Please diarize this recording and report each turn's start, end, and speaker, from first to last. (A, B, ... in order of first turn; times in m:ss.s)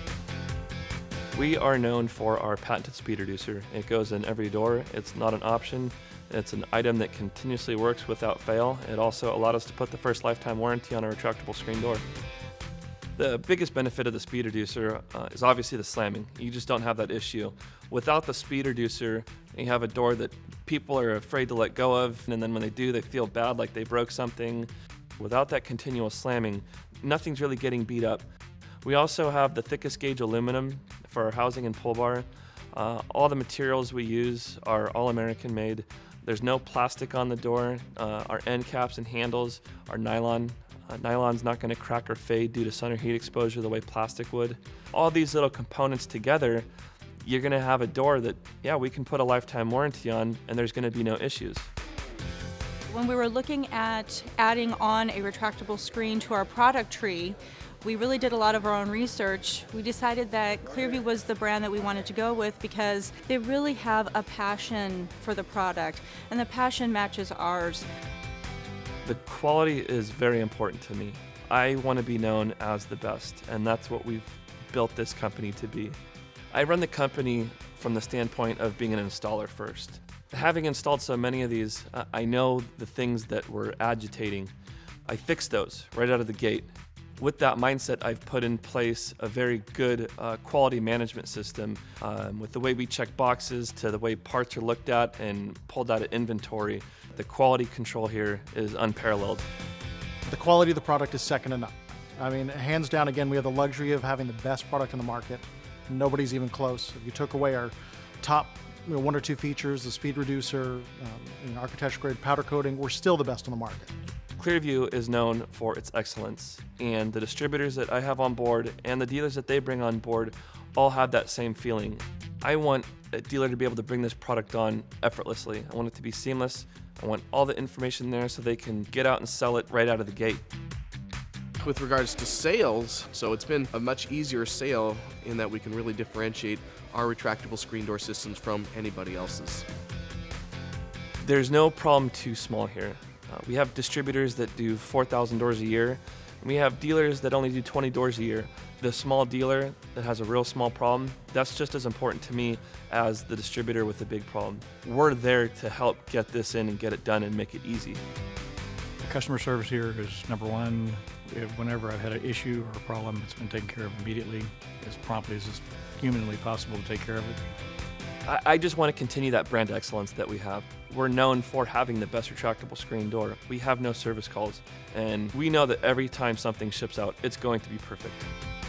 0:01.3-0:12.0 A
0:13.2-0:28.2 A
0:28.8-0:46.7 A
0:47.2-0:51.7 A
0:52.9-1:07.8 B
1:09.0-1:16.0 A
1:16.5-1:24.5 A
1:25.1-1:39.4 A
1:40.3-1:53.9 C
1:54.4-2:10.4 A
2:11.6-2:19.7 D
2:21.2-2:38.0 A
2:39.0-2:47.4 E
2:48.2-2:58.3 A